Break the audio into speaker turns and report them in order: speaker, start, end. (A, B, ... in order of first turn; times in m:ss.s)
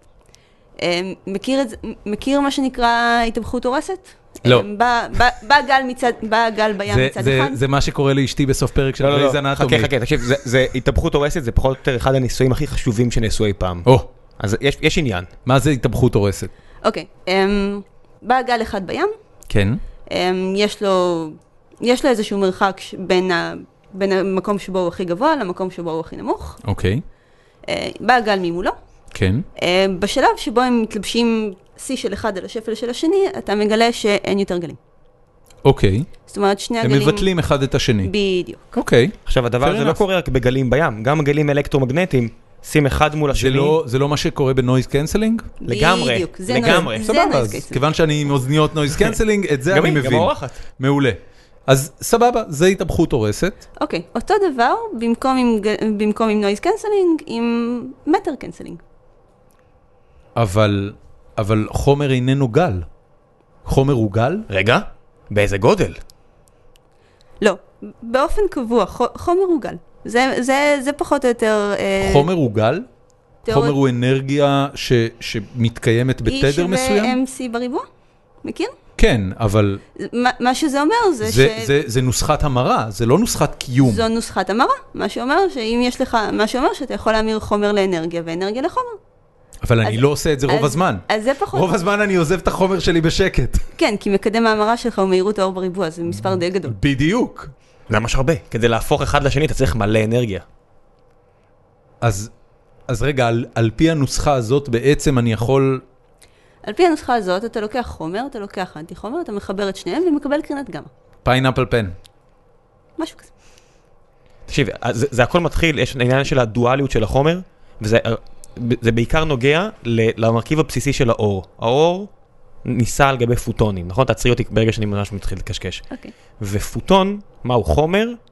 0:00.8-0:07.6 A
0:06.9-0:09.9 B
0:09.0-0:13.9 C
0:14.4-0:15.3 C
0:15.5-0:16.5 B
0:16.8-0:19.1 A
0:19.5-0:19.8 B
0:20.1-0:26.6 A
0:26.6-0:27.0 B
0:27.6-0:28.8 A
0:29.1-0:29.4 B
0:29.6-0:34.8 A
0:35.6-0:36.1 B
0:36.3-0:37.3 A
0:36.8-0:38.1 B
0:38.0-0:38.7 A
0:38.8-0:40.0 B
0:39.3-0:43.8 C
0:43.3-0:45.5 B
0:45.6-0:47.8 A
0:45.6-0:47.2 C
0:46.5-0:53.6 B
0:49.7-0:50.6 C
0:53.8-0:58.8 A
1:00.4-1:02.9 B
1:03.6-1:04.5 B
1:04.5-1:06.0 C
1:07.4-1:12.3 A
1:12.0-1:12.9 B
1:13.4-1:13.8 A
1:13.5-1:17.2 B
1:16.3-1:17.9 A
1:18.4-1:18.7 A
1:19.0-1:19.8 B
1:20.0-1:21.7 A
1:21.2-1:24.0 B
1:23.8-1:29.0 A
1:29.6-1:33.6 B
1:29.8-1:31.7 A
1:33.8-1:36.8 A
1:36.2-1:37.5 B
1:37.9-1:40.4 C
1:42.0-1:42.3 B
1:42.9-1:45.8 B
1:46.6-1:50.9 A
1:51.2-1:52.0 B
1:53.0-1:53.3 A
1:54.5-2:02.1 C
2:02.6-2:05.8 C
2:06.4-2:08.2 C